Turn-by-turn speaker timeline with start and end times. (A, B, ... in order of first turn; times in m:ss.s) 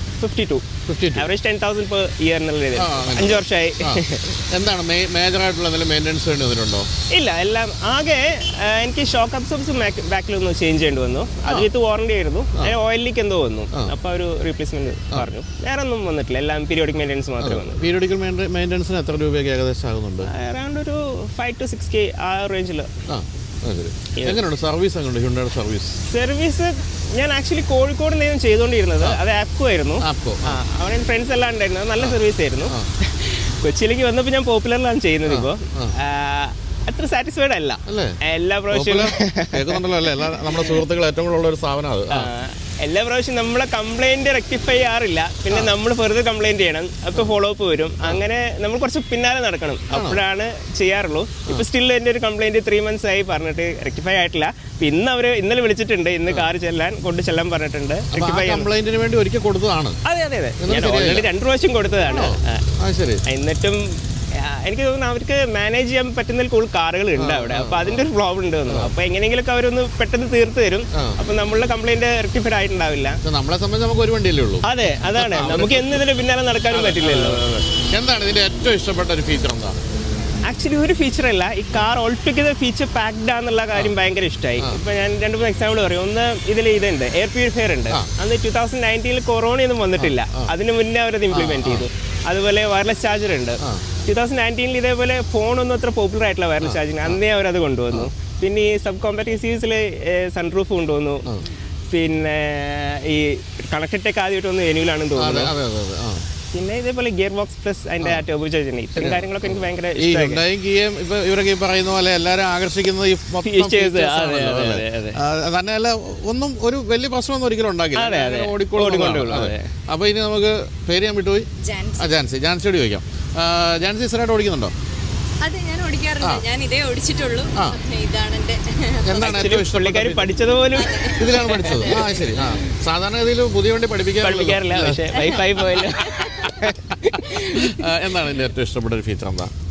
0:00.2-0:04.4 A
0:00.9-0:01.3 B
0:02.7-0:06.9 B
0:07.1-0:17.8 A
0:17.4-0:20.3 B
0:20.3-0:22.9 A
0:23.1-0:26.0 B
0:26.1-0:40.8 A
0:30.0-0:30.6 B
0:32.0-0:32.9 B
0:35.2-0:35.9 B
0:37.9-0:38.2 B
0:38.7-0:42.3 B
0:42.1-0:58.7 A
0:49.9-0:50.2 B
0:58.1-1:00.0 B
1:00.0-1:02.6 A
1:00.6-1:01.3 B
1:02.0-1:03.2 B
1:03.3-1:13.2 A
1:07.2-1:08.0 B
1:13.2-1:16.0 B
1:14.6-1:17.4 A
1:16.7-1:19.8 B
1:20.4-1:41.3 A
1:30.0-1:30.5 B
1:31.3-1:31.9 B
1:36.6-1:37.2 B
1:41.9-1:45.5 A
1:45.2-1:46.2 B
1:46.5-1:50.4 A
1:48.9-2:01.5 B
1:53.4-1:55.2 A
1:58.0-1:59.7 A
2:01.6-2:02.1 C
2:02.0-2:04.7 B
2:05.4-2:09.2 C
2:09.0-2:10.3 B
2:09.1-2:12.0 A
2:10.7-2:12.7 C
2:11.2-2:16.5 B
2:14.2-2:17.8 A
2:15.1-2:16.5 C
2:17.4-2:19.5 B